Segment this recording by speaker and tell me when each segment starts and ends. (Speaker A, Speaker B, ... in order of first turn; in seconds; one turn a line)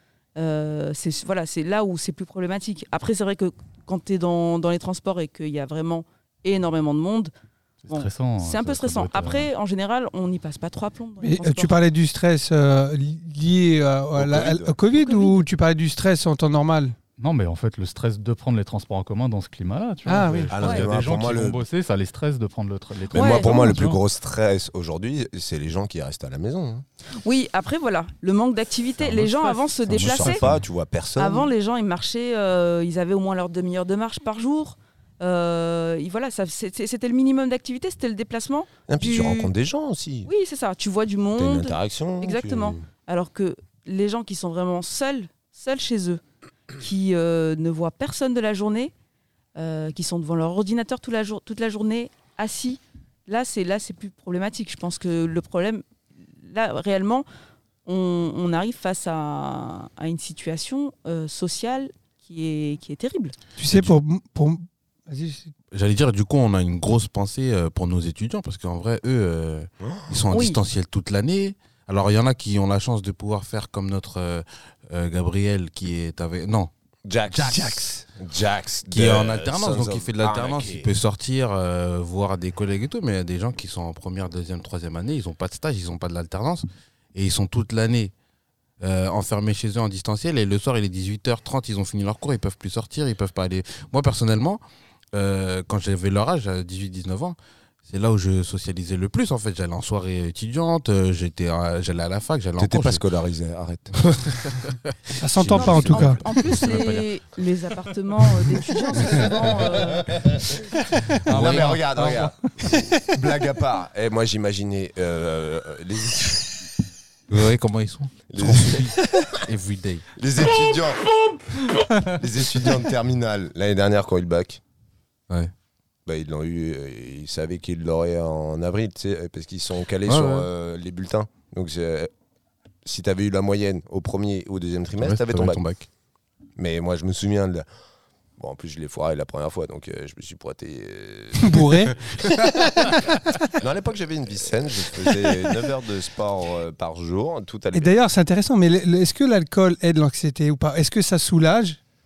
Speaker A: 0.4-7.3
Speaker B: 7.9-9.5
Speaker A: 7.9-11.8
Speaker C: 11.2-17.0
Speaker D: 14.1-14.8
Speaker A: 14.9-15.4
Speaker B: 17.2-24.0
Speaker C: 20.1-20.6
Speaker D: 20.5-21.6
Speaker A: 20.6-20.9
Speaker A: 23.1-23.5
Speaker D: 23.1-26.8
Speaker C: 23.5-23.8
Speaker A: 27.2-30.4
Speaker B: 29.0-30.6
Speaker D: 29.9-31.5
Speaker A: 31.2-39.5
Speaker D: 38.9-40.3
Speaker A: 40.3-46.2
Speaker D: 41.4-42.8
Speaker A: 46.7-48.9
Speaker A: 49.6-55.8
Speaker A: 56.4-57.3
Speaker A: 57.9-63.4
Speaker C: 63.6-65.5
Speaker E: 63.7-63.9
Speaker E: 65.7-76.7
Speaker D: 69.8-70.2
Speaker A: 70.3-70.6
Speaker D: 77.1-80.9
Speaker E: 77.3-77.7
Speaker C: 77.5-78.0
Speaker E: 78.9-88.1
Speaker E: 88.8-94.6
Speaker E: 95.1-103.0
Speaker D: 102.6-104.0
Speaker E: 104.0-107.1
Speaker C: 105.2-106.2
Speaker A: 105.5-110.2
Speaker B: 111.3-112.5
Speaker D: 111.3-116.6
Speaker E: 117.3-120.1
Speaker D: 118.3-119.3
Speaker D: 120.2-121.1
Speaker D: 122.1-124.6
Speaker D: 126.1-132.1
Speaker E: 130.1-130.5
Speaker D: 132.8-135.6
Speaker E: 135.0-135.9
Speaker D: 136.6-137.7
Speaker D: 138.4-142.0
Speaker C: 141.4-143.1
Speaker D: 143.5-147.9
Speaker C: 147.7-151.8